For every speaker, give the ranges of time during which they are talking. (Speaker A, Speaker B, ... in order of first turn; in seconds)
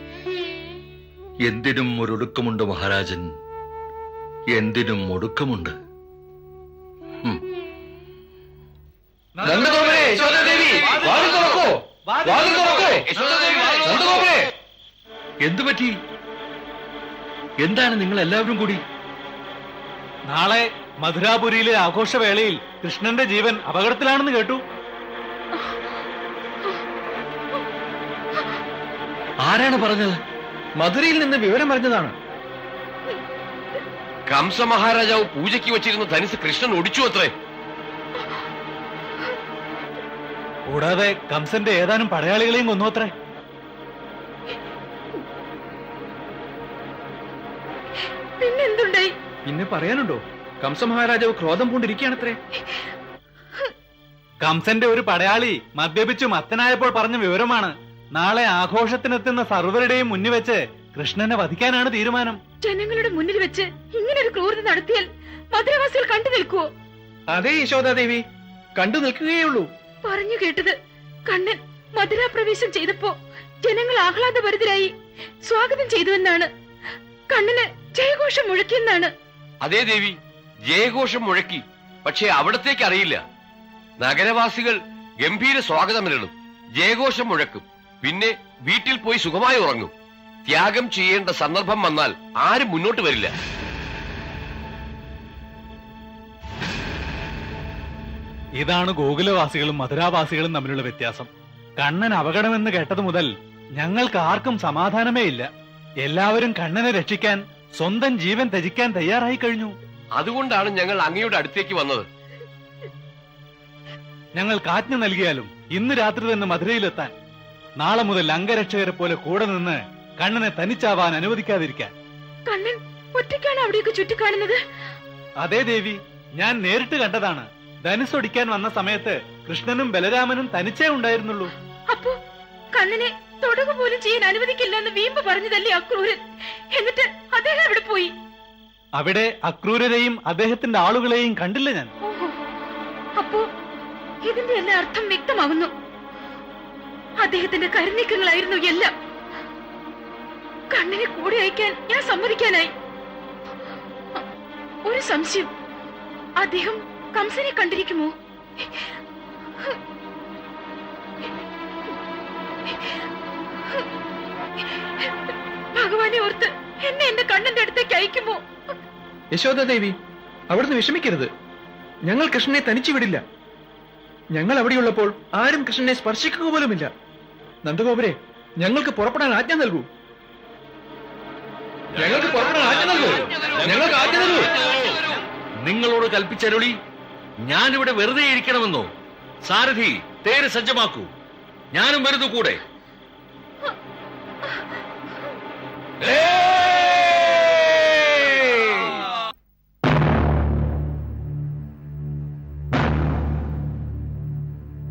Speaker A: 1.4-3.3, 4.5-5.8, 15.4-15.9, 17.6-18.8, 29.4-30.2, 185.6-186.8, 187.4-188.9, 189.4-191.1, 191.7-192.6
Speaker B: 9.4-13.9, 20.3-24.6, 40.7-43.1, 54.4-62.4, 98.6-105.5, 106.0-109.7, 114.3-117.1, 117.8-121.9, 125.4-131.5, 139.0-141.9
Speaker C: 9.4-13.1, 13.8-14.5, 30.8-32.1, 49.5-52.4, 67.3-68.2, 68.8-69.7, 169.3-169.9, 170.5-171.3, 172.1-173.2, 174.3-176.9, 177.6-179.9, 182.0-184.6
Speaker D: 34.3-37.3, 79.6-80.2, 80.7-83.2, 84.0-89.9, 90.5-93.3, 110.2-112.1
Speaker E: 48.4-49.1, 62.6-66.7, 70.0-70.7, 71.3-74.9, 75.4-76.5, 77.3-79.1, 122.5-124.6, 131.9-132.2, 132.7-136.2, 136.7-138.1, 142.0-142.4, 143.2-143.4, 144.2-145.7, 147.2-148.9, 150.7-152.7, 154.8-155.5, 156.4-158.1, 158.6-158.8, 165.7-168.4